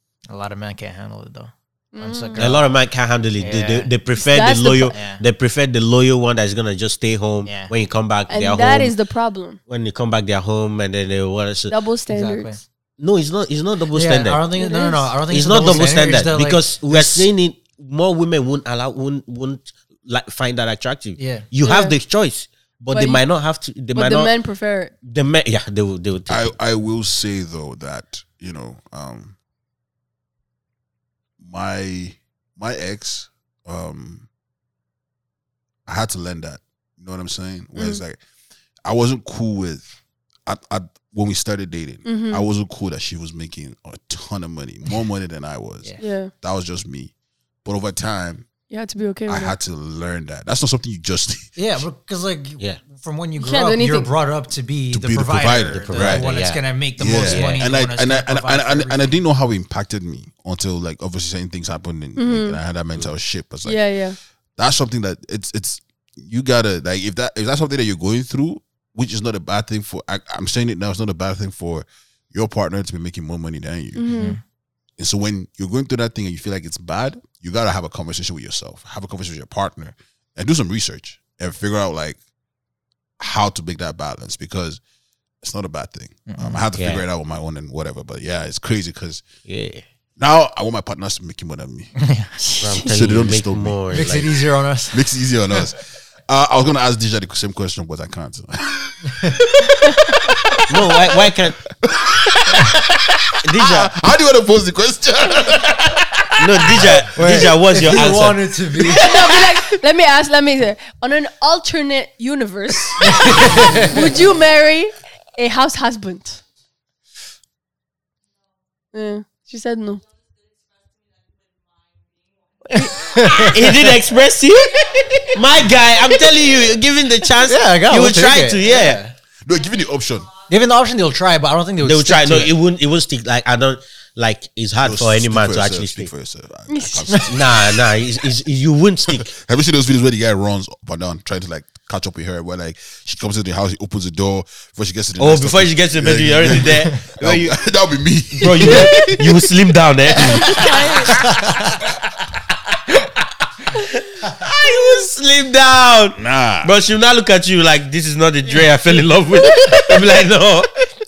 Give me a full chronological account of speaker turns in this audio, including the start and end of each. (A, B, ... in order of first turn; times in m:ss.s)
0:00.3-0:02.7 A
0:01.9-0:02.5 B
0:02.4-0:08.9 C
0:03.4-0:03.9 A
0:04.2-0:04.9 B
0:04.9-0:05.2 A
0:07.4-0:07.7 A
0:08.3-0:09.6 B
0:09.7-0:11.8 C
0:11.7-0:12.6 B
0:12.1-0:12.6 A
0:13.0-0:14.6 C
0:13.9-0:17.3 A
0:14.6-0:15.2 B
0:15.3-0:24.3 C
0:21.2-0:21.4 A
0:21.6-0:22.0 B
0:22.9-0:23.2 B
0:23.9-0:24.9 B
0:25.0-0:26.5 C
0:26.3-0:29.4 D
0:31.4-0:34.3 D
0:35.9-0:38.2 D
0:37.7-0:38.0 B
0:38.9-0:39.9 D
0:40.4-0:47.1 D
0:42.0-0:42.4 B
0:46.0-0:46.3 B
0:47.6-0:48.4 D
0:48.7-0:49.6 B
0:49.3-0:51.8 D
0:51.6-0:59.2 A
0:53.4-0:54.1 B
0:54.9-0:56.3 D
0:55.9-0:56.6 C
0:57.0-1:03.8 D
0:57.3-0:57.6 C
1:02.2-1:02.6 B
1:03.6-1:04.2 B
1:04.6-1:14.2 D
1:13.9-1:14.4 B
1:14.1-1:14.4 A
1:15.0-1:22.2 D
1:23.2-1:24.8 D
1:25.4-1:29.2 D
1:26.3-1:26.6 A
1:26.8-1:27.0 C
1:29.4-1:29.8 C
1:30.2-1:31.9 D
1:32.1-1:32.6 A
1:32.6-1:34.4 C
1:32.8-1:33.8 D
1:33.9-1:35.1 A
1:34.9-1:41.3 D
1:40.7-1:41.6 C
1:41.8-1:47.1 D
1:43.4-1:43.9 C
1:46.4-1:48.4 C
1:47.2-1:49.3 A
1:48.7-1:49.4 D
1:48.9-1:56.4 B
1:53.0-1:54.0 A
1:58.9-2:00.0 B
2:02.7-2:04.0 A
2:03.4-2:09.0 C
2:07.4-2:09.2 A
2:09.4-2:10.3 D
2:10.5-2:12.5 A
2:11.8-2:16.1 C
2:14.8-2:18.1 D
2:16.7-2:17.2 B
2:17.3-2:19.3 C
2:19.2-2:29.5 D
2:25.2-2:27.6 C
2:28.4-2:31.3 C
2:30.1-2:32.0 D
2:30.2-2:31.2 B
2:33.7-2:40.7 C
2:36.2-2:36.7 D